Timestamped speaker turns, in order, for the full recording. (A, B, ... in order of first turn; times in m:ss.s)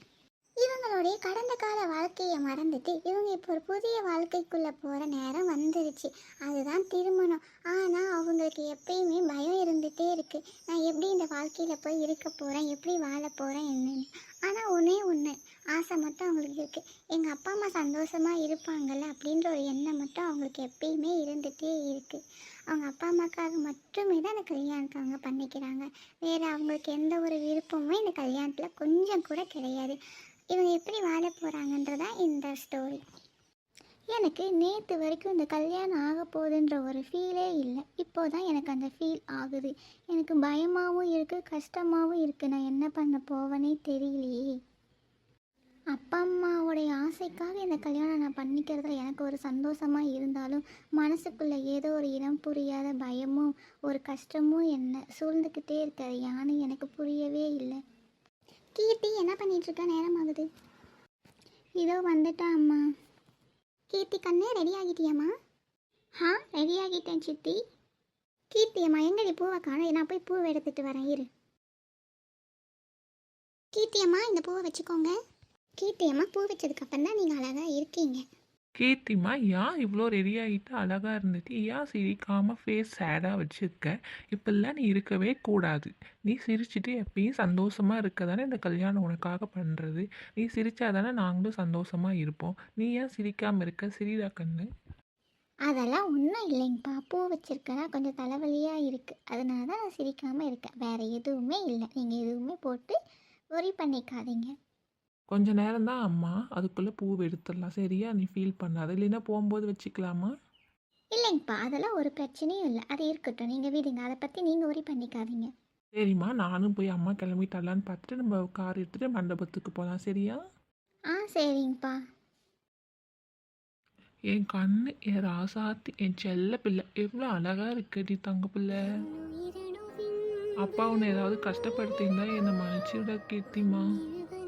0:00.6-0:30.0 A
0:30.5-0:33.0 A
0:34.1-0:44.4 A
0:45.9-0:57.8 A
0:58.8-1:00.4 A
1:01.8-1:02.8 A
1:03.9-1:05.3 A
1:06.2-1:07.6 A
1:08.5-1:11.3 A
1:13.7-1:15.1 A
1:15.8-1:18.2 A
1:18.8-1:34.6 B
1:35.7-1:43.0 A
1:43.5-1:44.5 A
1:45.3-1:50.3 B
1:51.1-1:55.5 A
1:56.0-2:00.4 B
2:01.1-2:02.0 A
2:04.3-2:09.0 B
2:09.4-2:10.5 A
2:10.6-2:13.9 B